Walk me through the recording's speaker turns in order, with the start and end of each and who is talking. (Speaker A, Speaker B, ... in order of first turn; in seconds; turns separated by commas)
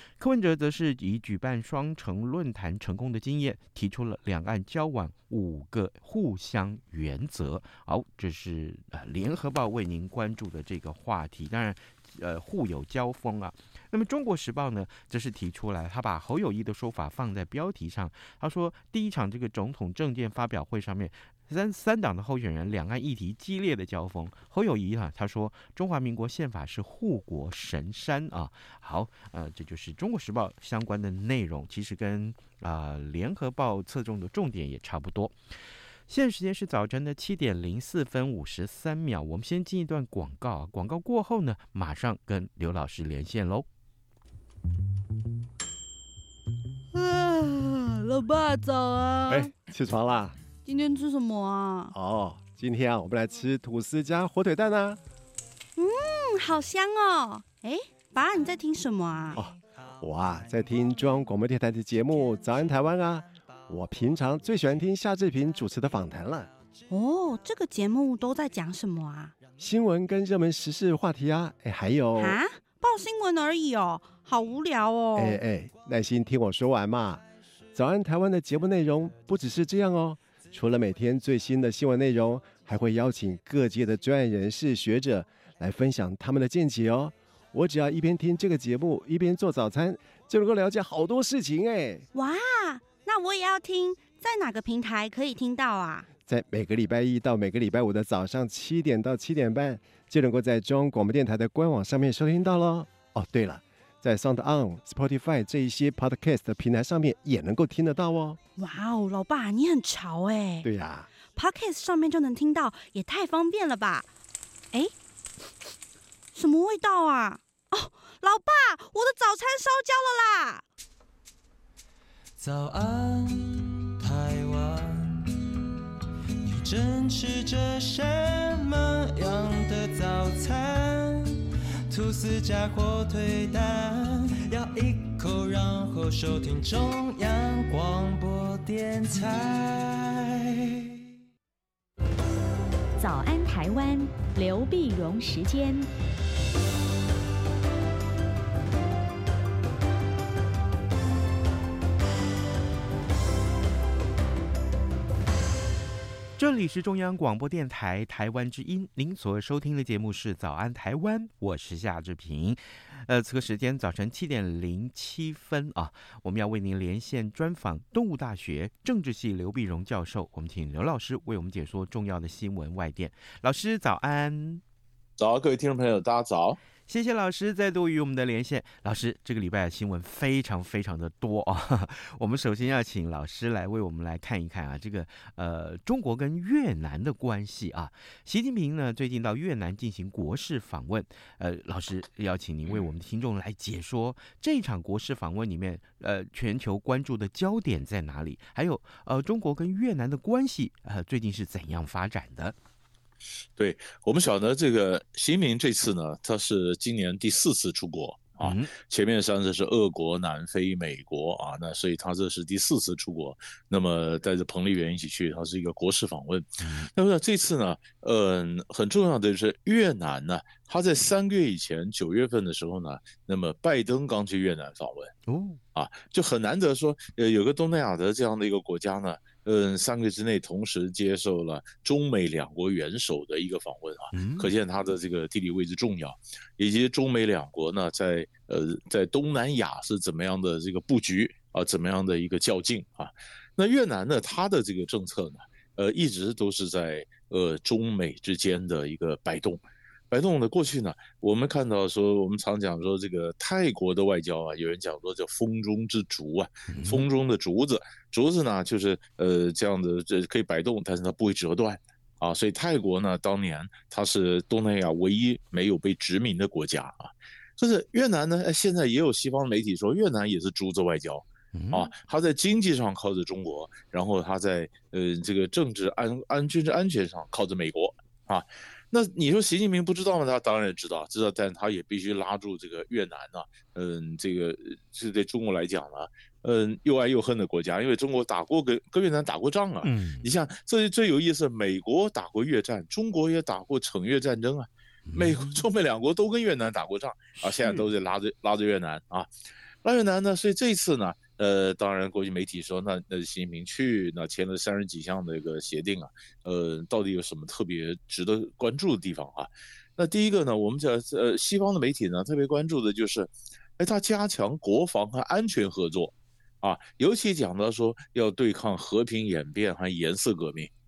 Speaker A: 0.2-35.4, Speaker A: 36.1-43.7, Speaker B: 46.9-49.5, Speaker C: 49.3-50.4, Speaker B: 50.6-51.9, Speaker C: 51.9-55.0, Speaker B: 55.8-59.4, Speaker C: 59.4-66.5, Speaker B: 66.9-69.3, Speaker C: 69.6-72.4, Speaker B: 72.2-75.4, Speaker C: 75.2-92.0, Speaker B: 92.1-96.1, Speaker C: 96.2-108.4, Speaker B: 108.6-110.7, Speaker C: 110.6-111.1, Speaker B: 111.3-114.1, Speaker B: 116.3-120.6, Speaker D: 122.4-125.3, Speaker D: 126.4-140.7, Speaker E: 143.0-145.9, Speaker A: 156.4-174.6, Speaker F: 175.2-176.6, Speaker A: 176.9-202.6, Speaker F: 203.6-225.1, Speaker A: 208.4-208.7, Speaker A: 216.6-216.9, Speaker A: 225.3-225.6, Speaker F: 225.7-299.3, Speaker A: 234.1-234.5, Speaker A: 256.7-257.1, Speaker A: 271.5-271.9, Speaker A: 289.8-290.3, Speaker A: 295.1-295.6, Speaker A: 297.4-297.9, Speaker F: 299.8-320.7